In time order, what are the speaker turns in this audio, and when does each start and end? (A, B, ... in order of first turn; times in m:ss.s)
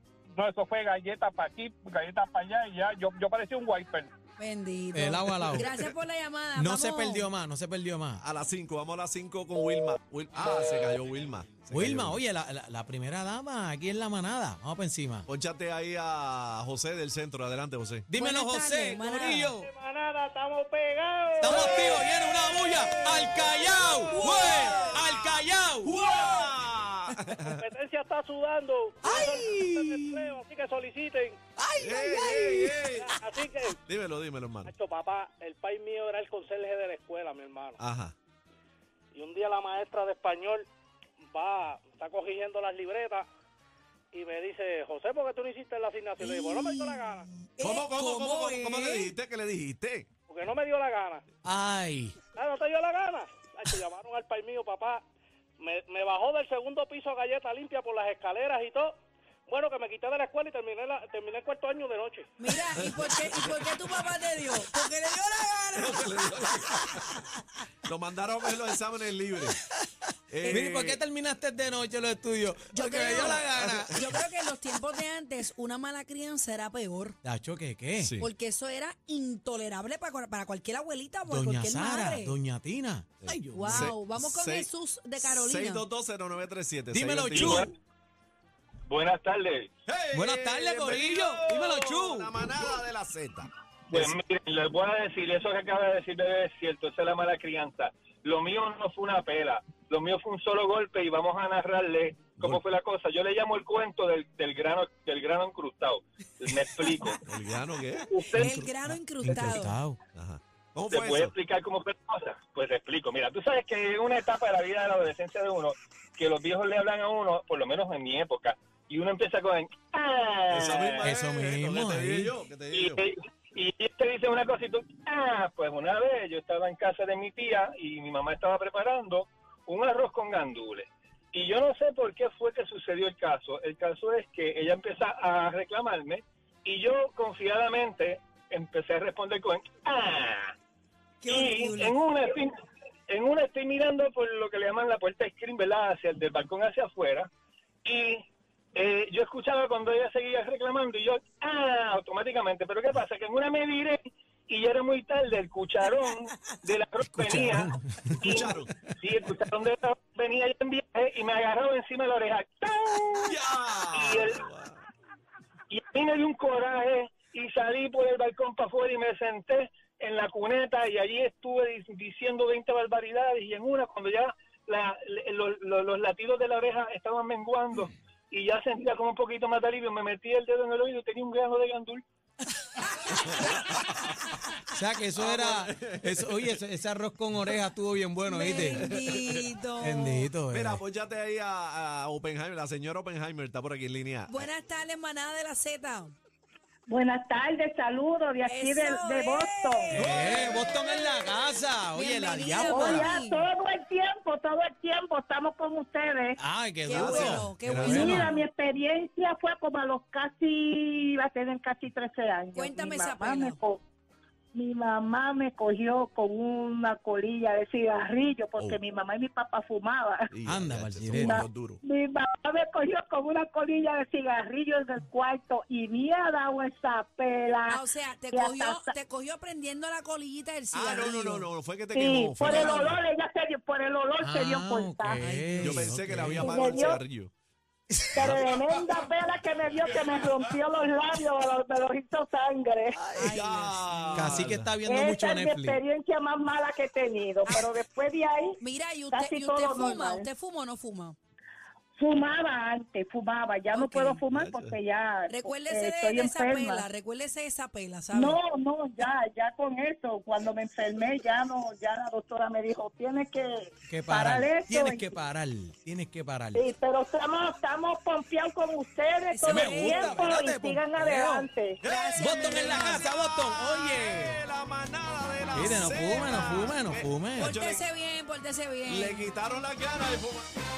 0:00.4-0:04.1 A
0:04.4-0:07.3 B
0:04.9-0:05.7 C
0:06.6-0:08.2 C
0:08.2-0:12.2 D
0:11.7-0:15.3 C
0:15.3-0:18.1 D
0:18.1-0:19.7 C
0:18.1-0:19.6 B
0:19.6-0:24.8 E
0:21.4-0:26.0 C
0:24.3-0:25.2 D
0:25.8-0:27.6 D
0:27.4-0:31.4 E
0:29.0-0:30.4 C
0:31.6-0:33.2 C
0:31.8-0:33.2 D
0:32.9-0:33.8 E
0:33.8-0:34.7 D
0:34.7-0:37.8 E
0:37.8-0:38.2 D
0:39.1-0:40.7 E
0:41.3-0:43.3 E
0:44.1-0:47.3 E
0:46.2-0:49.1 B
0:47.6-0:50.1 D
0:50.3-0:51.2 E
0:51.4-0:52.2 C
0:52.3-0:55.0 E
0:55.6-0:59.0 E
0:59.5-1:02.9 E
1:02.4-1:06.5 B
1:05.8-1:07.0 D
1:07.8-1:09.6 D
1:10.3-1:11.0 D
1:10.4-1:14.1 C
1:12.7-1:17.2 B
1:12.8-1:14.0 D
1:17.2-1:18.2 C
1:18.0-1:18.3 D
1:18.2-1:22.4 B
1:21.3-1:23.9 C
1:23.2-1:24.7 D
1:23.5-1:25.9 B
1:25.2-1:27.7 D
1:26.9-1:27.7 C
1:27.3-1:27.7 F
1:28.9-1:29.7 F
1:29.9-1:34.1 D
1:30.1-1:32.3 C
1:33.9-1:47.2 F
1:47.2-1:48.1 D
1:48.1-1:48.6 F
1:48.4-1:50.0 C
1:48.4-1:49.8 B
1:50.2-1:51.3 D
1:50.9-2:01.1 F
2:00.5-2:03.0 D
2:01.0-2:02.3 C
2:02.7-2:20.5 F
2:21.2-2:22.0 B
2:21.3-2:22.5 F
2:23.1-2:27.3 F
2:27.8-2:28.2 F
2:28.8-2:43.4 F
2:37.2-2:37.8 C
2:38.2-2:38.8 D
2:43.2-2:44.8 D
2:43.9-2:44.4 F
2:45.7-3:02.0 F
3:03.1-3:04.0 D
3:04.7-3:08.9 C
3:05.2-3:06.6 D
3:08.2-3:10.3 B
3:08.8-3:09.4 D
3:09.8-3:10.8 C
3:10.5-3:14.4 D
3:14.2-3:16.2 B
3:16.9-3:19.9 G
3:18.4-3:20.2 B
3:19.9-3:23.1 C
3:20.0-3:20.6 D
3:21.9-3:23.5 B
3:22.6-3:26.4 G
3:26.4-3:28.3 C
3:26.8-3:28.2 B
3:26.9-3:28.3 D
3:27.9-3:33.8 G
3:32.5-3:33.6 B
3:34.5-3:40.3 G
3:38.6-3:38.8 D
3:40.3-3:41.8 D
3:40.4-3:41.5 C
3:41.8-3:47.8 G
3:47.7-3:51.5 B
3:48.3-3:48.8 G
3:50.7-3:53.0 D
3:52.0-3:55.2 G
3:54.2-3:56.6 C
3:55.1-3:55.8 B
3:55.6-3:57.3 D
3:56.4-3:57.0 G
3:57.9-3:58.5 C
3:58.1-4:03.0 G
3:58.2-3:59.0 D
4:03.0-4:03.3 C
4:03.1-4:04.2 B
4:03.3-4:04.7 D
4:04.1-4:05.8 C
4:04.9-4:08.6 G
4:07.4-4:07.8 B
4:08.6-4:11.2 B
4:09.2-4:10.3 G
4:12.0-4:16.8 G
4:13.7-4:14.2 B
4:14.2-4:14.8 D
4:15.3-4:18.4 B
4:18.2-4:25.0 G
4:23.9-4:26.7 C
4:26.6-4:31.8 G
4:29.3-4:31.5 C
4:29.6-4:30.2 B
4:31.8-4:33.1 B
4:31.8-4:37.8 D
4:32.2-4:34.4 C
4:35.5-4:37.5 C
4:37.4-4:39.3 B
4:38.9-4:40.5 D